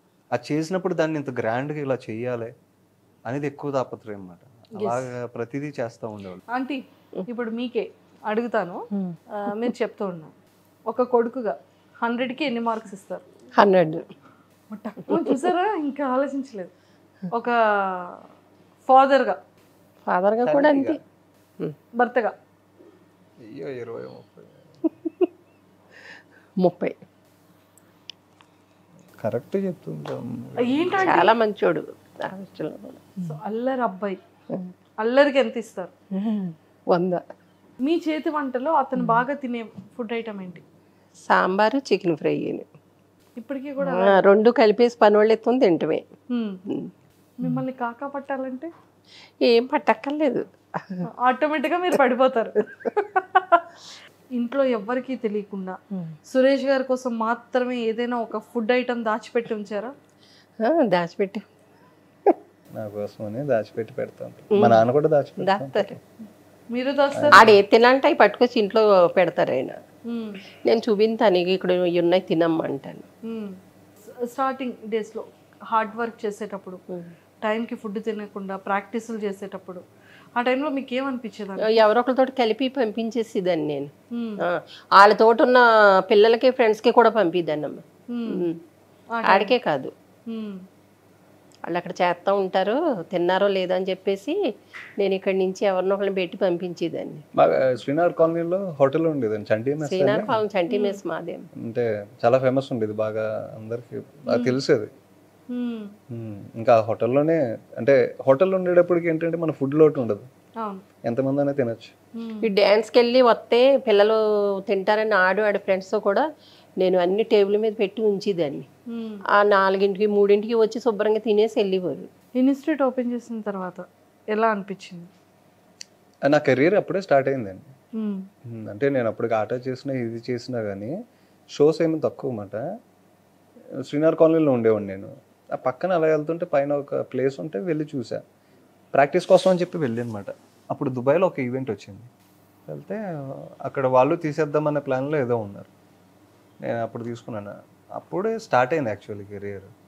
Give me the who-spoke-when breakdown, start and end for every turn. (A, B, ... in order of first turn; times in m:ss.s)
0:00.3-0:02.5 A
0:03.3-0:06.4 A
0:04.8-0:05.1 B
0:06.5-0:10.3 B
0:08.9-0:09.7 C
0:10.9-0:13.2 B
0:13.6-0:14.0 C
0:14.7-0:16.7 B
0:15.1-0:15.5 C
0:17.3-0:18.2 B
0:18.9-0:19.4 B
0:20.1-0:21.0 C
0:20.4-0:21.0 A
0:22.0-0:22.4 B
0:23.4-0:24.6 A
0:26.6-0:27.0 C
0:29.2-0:31.2 A
0:30.6-0:31.3 B
0:31.1-0:33.4 C
0:33.2-0:34.2 B
0:35.0-0:35.9 B
0:36.1-0:37.2 C
0:37.8-0:40.6 B
0:39.0-0:39.2 C
0:41.3-0:42.7 C
0:43.4-0:44.2 B
0:43.8-0:46.1 C
0:46.3-0:46.6 B
0:47.4-0:48.7 B
0:49.4-0:51.1 C
0:51.2-0:53.7 B
0:54.4-0:59.9 B
1:00.6-1:01.4 C
1:02.8-1:06.0 A
1:04.6-1:04.8 C
1:05.4-1:06.0 C
1:06.7-1:07.4 B
1:07.1-1:07.6 A
1:07.3-1:09.8 C
1:10.1-1:10.4 B
1:10.7-1:13.1 C
1:13.3-1:16.8 B
1:17.4-1:19.8 B
1:20.4-1:21.8 B
1:21.6-1:28.6 C
1:24.1-1:24.4 B
1:28.1-1:28.5 B
1:29.2-1:29.5 B
1:29.2-1:29.9 C
1:30.3-1:30.6 B
1:31.7-1:34.4 C
1:35.0-1:37.2 C
1:37.4-1:40.4 A
1:39.8-1:41.5 C
1:40.7-1:41.0 B
1:41.6-1:44.9 A
1:44.3-1:44.6 B
1:45.5-1:45.9 B
1:46.1-1:50.3 A
1:51.1-1:51.9 A
1:52.2-1:52.5 B
1:52.4-1:56.3 C
1:56.8-1:58.7 C
1:58.9-1:59.2 B
1:59.3-2:02.1 C
2:02.4-2:05.1 B
2:06.3-2:07.7 A
2:08.0-2:08.3 B
2:08.5-2:10.9 A
2:11.5-2:12.6 A
2:13.9-2:18.2 A
2:18.9-2:22.1 A
2:22.7-2:23.0 A
2:23.6-2:25.7 A
2:26.6-2:29.7 A